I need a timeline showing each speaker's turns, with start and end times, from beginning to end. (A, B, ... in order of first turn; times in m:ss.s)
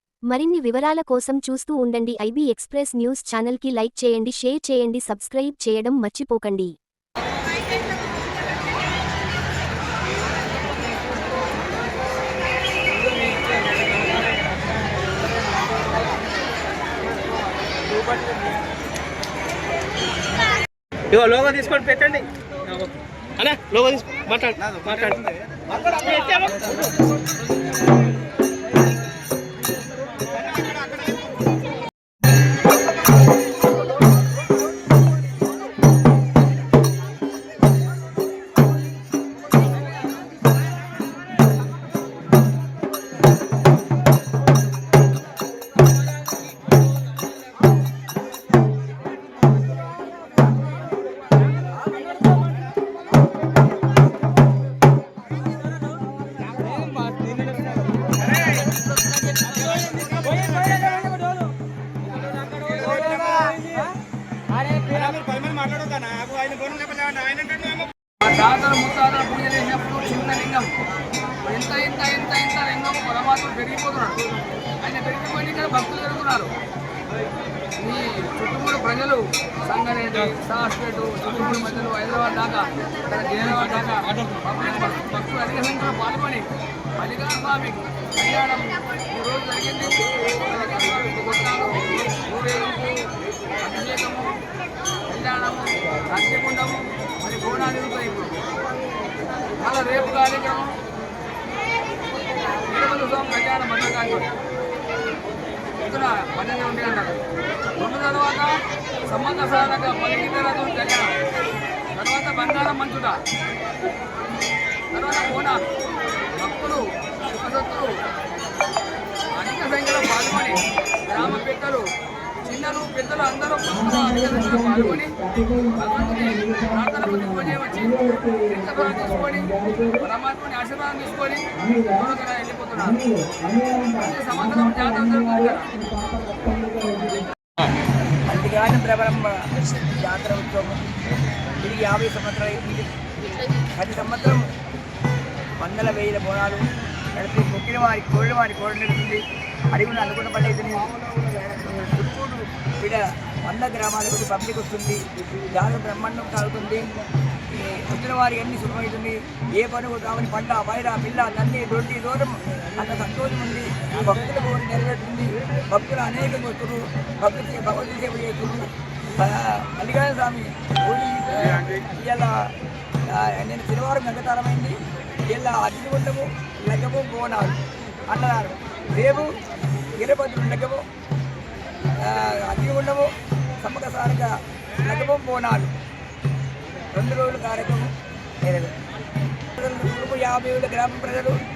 0:00.3-0:06.7 A
0:21.1-0:22.8 B
0:23.4-0:25.3 B
0:25.9-0:26.6 B
1:02.8-1:03.5 C
1:04.9-1:07.8 B
1:08.2-1:10.7 C
1:11.4-1:16.5 C
1:17.8-1:34.4 C
1:35.1-1:38.4 C
1:39.6-1:40.8 C
1:42.6-1:44.3 C
1:45.8-1:47.2 C
1:47.8-1:51.2 C
1:51.9-1:53.2 C
1:54.9-1:55.6 C
1:56.4-1:58.0 C
1:59.3-2:13.0 C
2:05.3-2:05.8 B
2:09.5-2:10.0 B
2:13.1-2:13.9 B
2:13.8-2:15.8 C
2:15.9-2:17.2 B
2:18.2-2:20.9 D
2:21.6-2:22.9 D
2:23.7-2:24.5 D
2:25.6-2:52.5 D
2:53.1-2:59.3 D
3:00.0-3:00.8 D
3:02.0-3:05.8 D
3:06.9-3:07.9 D
3:08.4-3:08.7 D
3:09.6-3:11.4 D